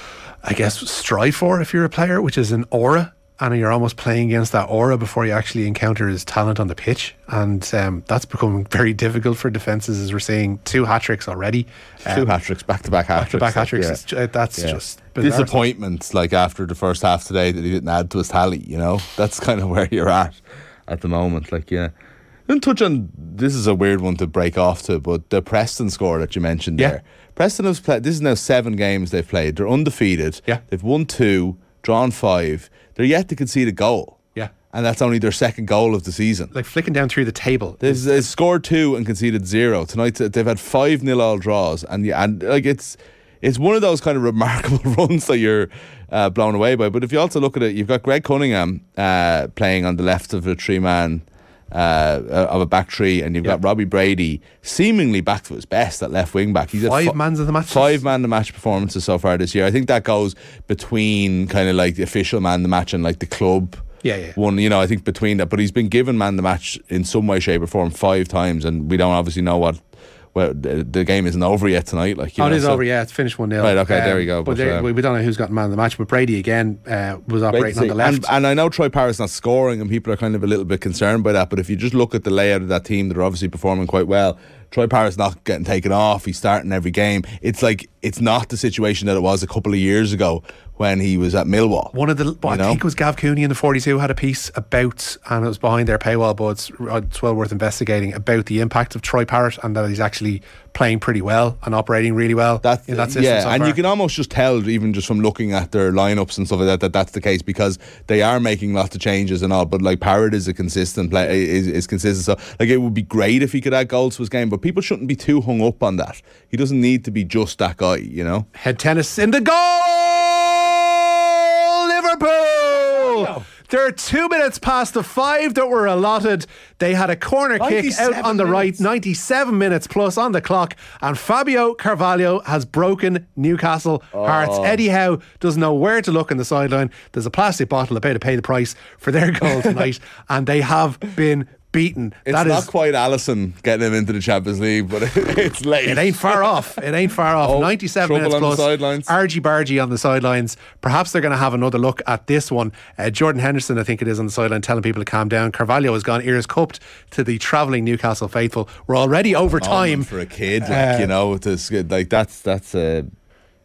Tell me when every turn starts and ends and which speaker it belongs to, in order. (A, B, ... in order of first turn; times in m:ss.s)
0:00.4-0:12.3 A
0:12.1-0:14.0 B
0:13.2-0:15.5 A
0:14.6-0:21.9 B
0:22.5-0:36.5 B
0:36.5-0:38.3 A
0:37.8-0:57.2 B
0:56.8-0:58.0 A
0:57.7-1:09.8 B
1:04.0-1:04.4 A
1:10.3-1:12.9 B
1:12.4-1:18.3 A
1:13.6-1:14.9 B
1:17.5-1:31.9 B
1:31.9-1:43.8 A
1:32.4-1:32.8 B
1:42.6-1:58.5 B
1:58.6-2:22.7 A
2:03.0-2:03.4 B
2:07.6-2:08.8 B
2:14.1-2:14.8 B
2:22.3-2:26.5 B
2:25.8-2:40.1 A
2:27.4-2:29.1 B
2:39.4-2:43.1 B
2:40.6-2:41.1 A